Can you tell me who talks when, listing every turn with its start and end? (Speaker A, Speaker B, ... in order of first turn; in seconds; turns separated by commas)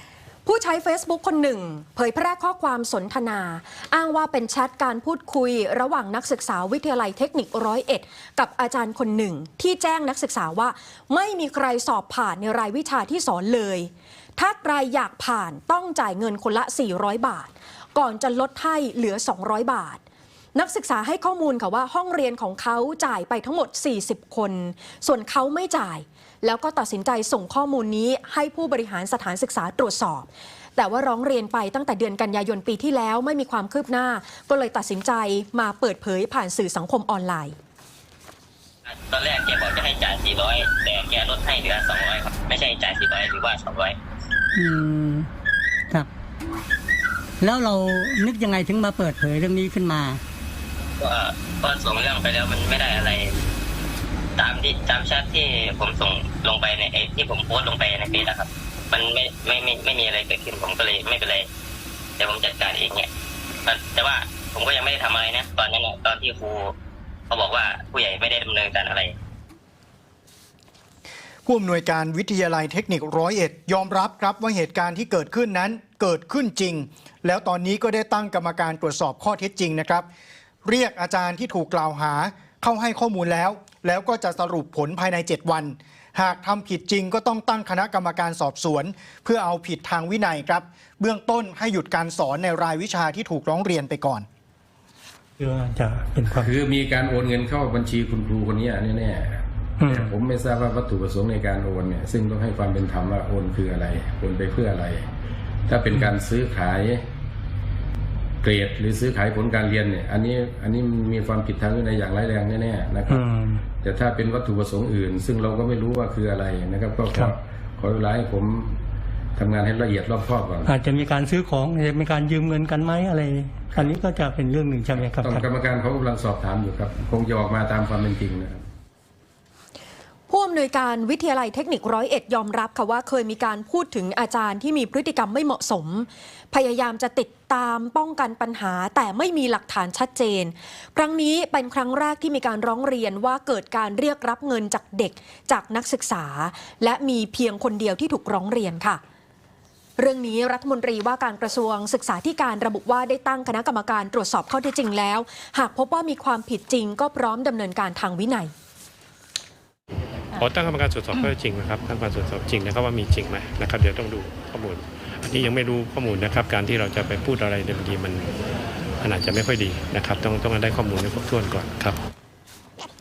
Speaker A: 0.4-20.0, Speaker A: 20.5-37.5, Speaker B: 38.9-43.9, Speaker C: 44.5-45.3, Speaker C: 47.4-50.2, Speaker B: 51.0-53.4, Speaker B: 54.4-61.5, Speaker B: 62.2-63.1, Speaker B: 63.7-66.7, Speaker B: 67.3-69.1, Speaker D: 71.5-80.0, Speaker D: 80.6-94.2, Speaker E: 95.4-96.5, Speaker F: 96.3-105.1, Speaker E: 99.8-100.1, Speaker F: 105.7-107.0, Speaker F: 108.4-113.2, Speaker E: 113.1-113.6, Speaker F: 113.8-118.8, Speaker F: 119.3-120.7, Speaker E: 120.6-125.5, Speaker F: 125.0-128.6, Speaker A: 130.3-149.0, Speaker A: 150.0-158.5, Speaker G: 160.4-168.3, Speaker G: 169.0-172.0